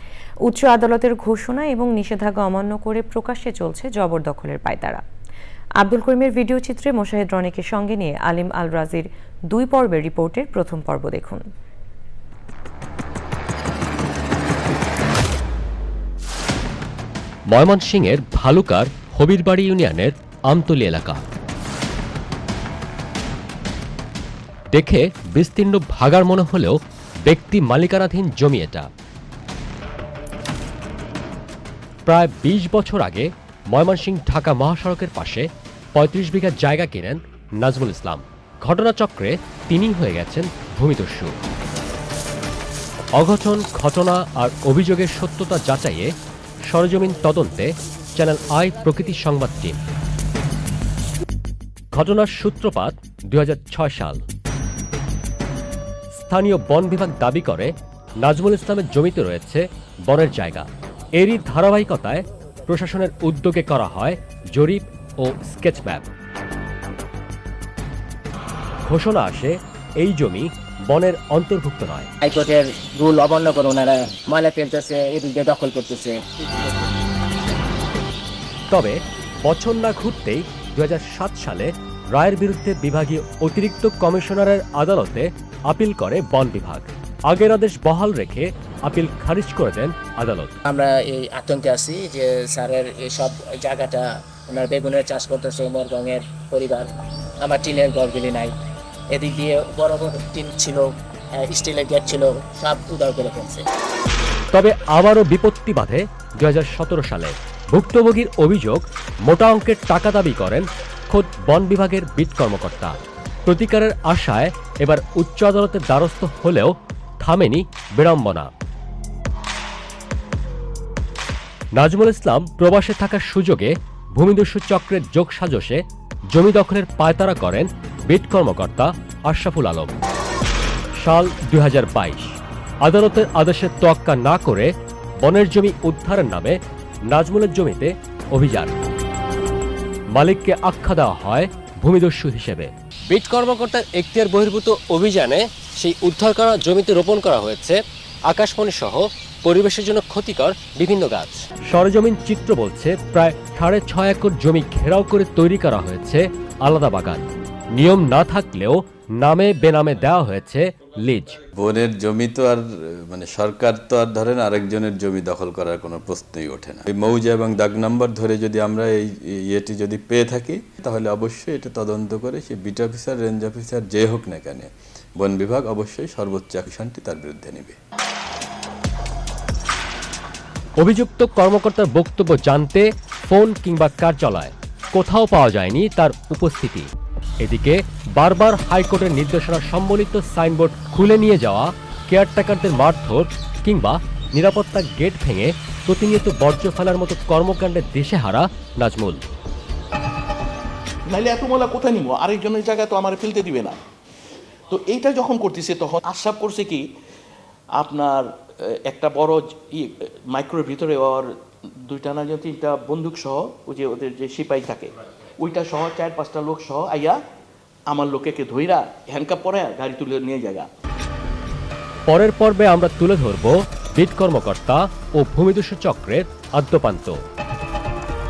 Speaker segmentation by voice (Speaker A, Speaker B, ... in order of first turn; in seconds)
Speaker A: 0.5-5.0, 5.8-11.4
Speaker B: 17.5-21.2, 24.7-28.9, 32.0-41.4, 43.1-46.1, 46.6-49.8, 51.9-54.2, 56.1-66.1, 68.8-72.1, 78.7-90.6, 104.5-118.5, 121.8-125.8, 126.3-129.9, 131.0-136.6, 137.1-138.7, 140.1-161.4, 180.8-186.9, 187.4-199.2, 222.1-227.2
Speaker C: 72.2-76.6, 90.6-98.6, 99.1-103.6
Speaker D: 161.6-177.8
Speaker E: 201.1-203.8, 204.7-206.9, 207.7-211.3, 211.8-217.2, 217.9-220.7